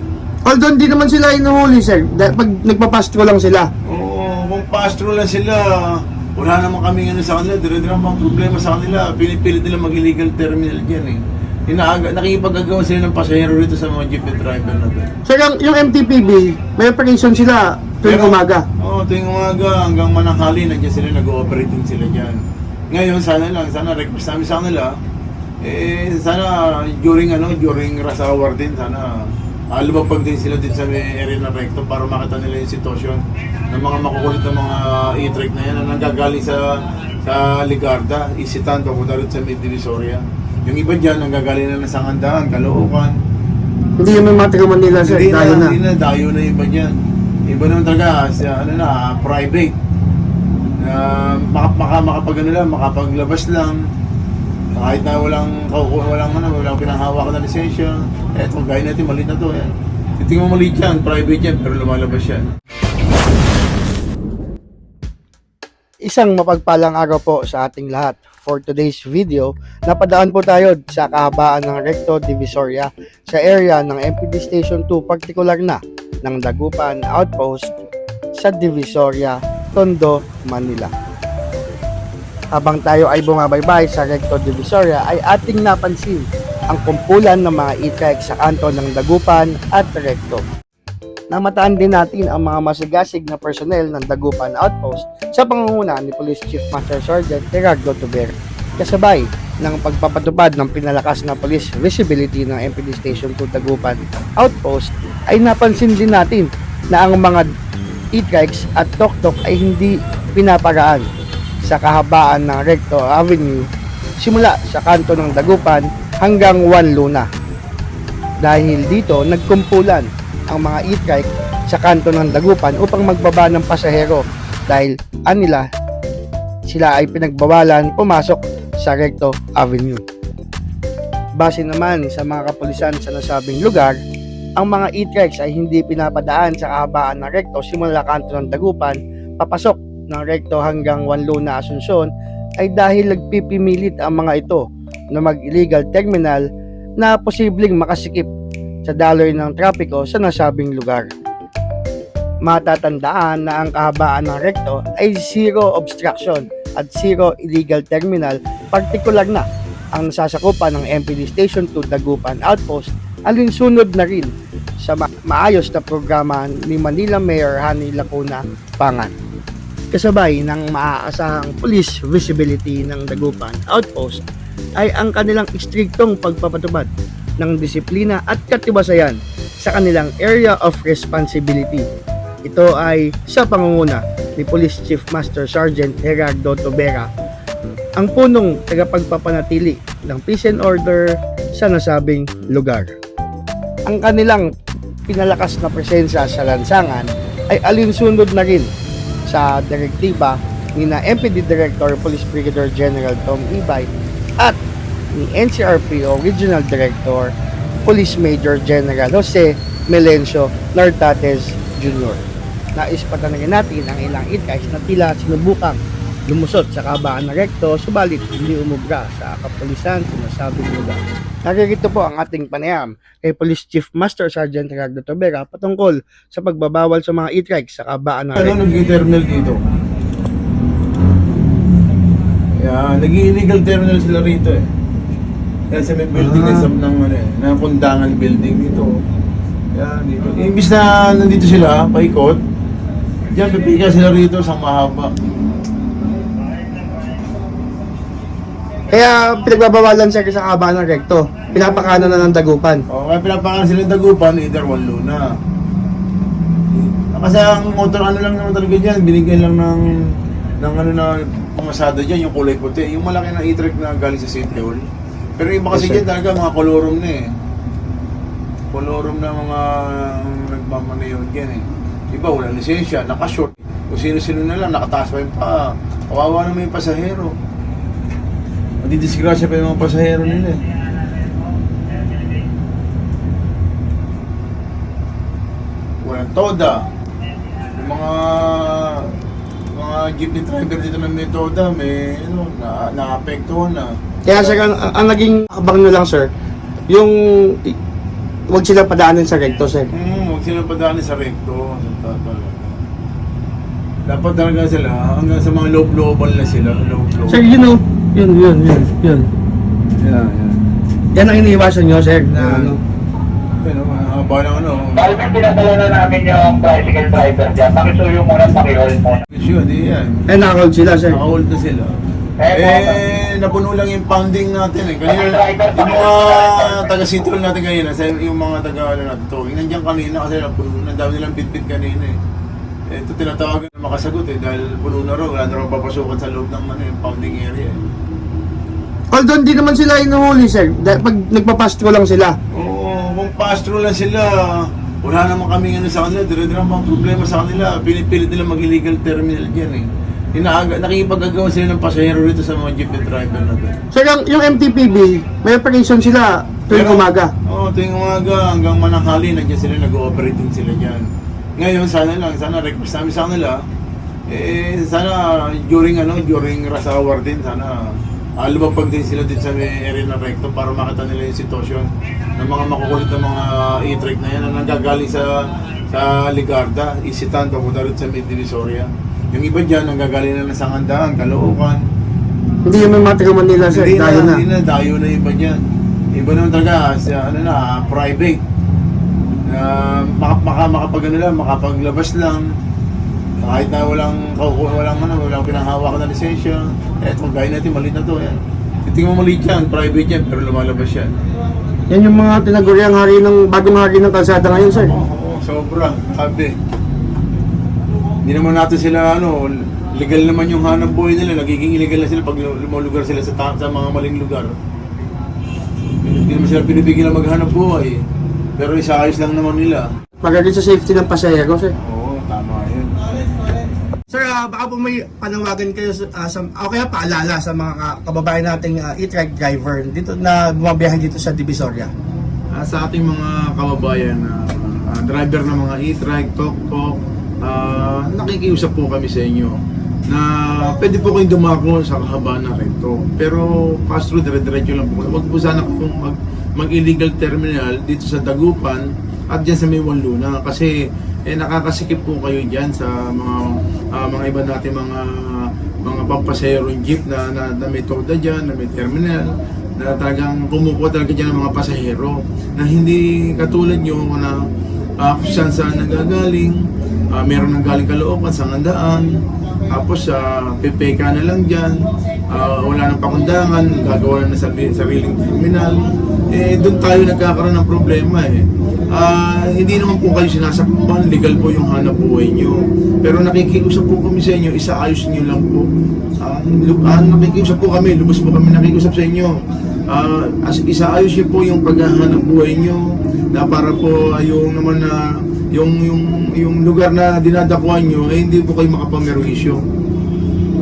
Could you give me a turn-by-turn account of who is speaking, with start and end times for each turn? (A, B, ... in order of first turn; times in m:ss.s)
0:00.4-0:03.7 A
0:03.9-0:15.1 B
0:15.2-0:18.6 A
0:18.0-0:25.0 B
0:25.6-0:36.6 B
0:37.2-0:43.2 B
0:44.0-0:45.8 A
0:44.9-0:46.9 B
0:47.5-0:49.7 B
0:50.8-0:53.8 B
0:54.8-1:02.4 B
1:06.1-1:17.8 A
1:18.4-1:20.9 A
1:22.5-1:30.4 A
1:31.3-1:47.5 A
1:48.1-1:51.0 A
1:51.7-1:53.6 A
1:54.2-1:57.2 A
1:58.4-2:05.6 A
2:06.7-2:10.0 A
2:11.4-2:14.0 A
2:14.6-2:22.1 A
2:22.6-2:24.6 A
2:25.1-2:26.4 A
2:27.0-2:28.3 A
2:28.8-2:31.1 A
2:32.4-2:39.4 A
2:39.9-2:44.3 A
2:44.8-2:49.1 A
2:49.9-2:54.2 A
2:54.8-2:56.9 A
2:57.4-3:01.8 A
3:02.4-3:07.1 A
3:08.0-3:12.9 A
3:13.9-3:14.4 A
3:15.1-3:18.7 A
3:19.3-3:23.9 A
3:25.2-3:27.3 A
3:27.9-3:32.2 A
3:32.8-3:48.6 A
3:48.4-3:49.6 B
3:52.6-3:54.7 B
3:55.7-3:58.9 B
3:56.1-3:56.7 A
3:59.7-4:02.4 B
4:03.3-4:05.1 B
4:08.9-4:12.8 A
4:11.5-4:12.3 B
4:12.9-4:15.2 B
4:17.0-4:19.8 B
4:20.6-4:24.8 B
4:25.4-4:27.2 B
4:25.7-4:26.0 A
4:28.7-4:37.3 B
4:38.8-4:40.6 B
4:46.0-4:46.8 B
4:47.8-4:49.1 B
4:49.7-4:54.6 B
4:54.2-4:56.3 A
4:56.9-4:57.8 A
4:58.5-4:59.9 A
4:59.9-5:02.8 B
5:04.1-5:07.5 B
5:07.3-5:09.3 A
5:10.0-5:10.6 B
5:11.1-5:12.8 A
5:12.4-5:12.7 B
5:13.5-5:15.3 B
5:15.0-5:19.2 C
5:19.3-5:20.3 B
5:20.3-5:21.2 A
5:21.0-5:21.9 B
5:22.4-5:23.0 C
5:22.5-5:32.2 B
5:25.2-5:26.8 C
5:32.9-5:37.8 B
5:39.1-5:42.3 A
5:42.5-5:53.7 B
5:53.9-5:57.3 A
5:56.7-6:03.6 B
6:04.3-6:15.3 B
6:15.9-6:21.8 B
6:22.7-6:24.4 A
6:23.7-6:25.6 B
6:26.2-6:28.4 B
6:29.5-6:32.4 B
6:33.4-6:41.1 B
6:41.9-6:45.0 A
6:44.5-6:46.5 B
6:48.2-6:54.5 B
6:56.0-6:58.0 B
6:58.6-6:59.9 B
7:00.2-7:01.7 A
7:01.8-7:03.2 B
7:04.1-7:11.9 A
7:12.5-7:30.7 B
7:31.3-7:44.4 B
7:45.0-7:49.1 B
7:49.7-8:05.7 B
8:06.2-8:19.6 B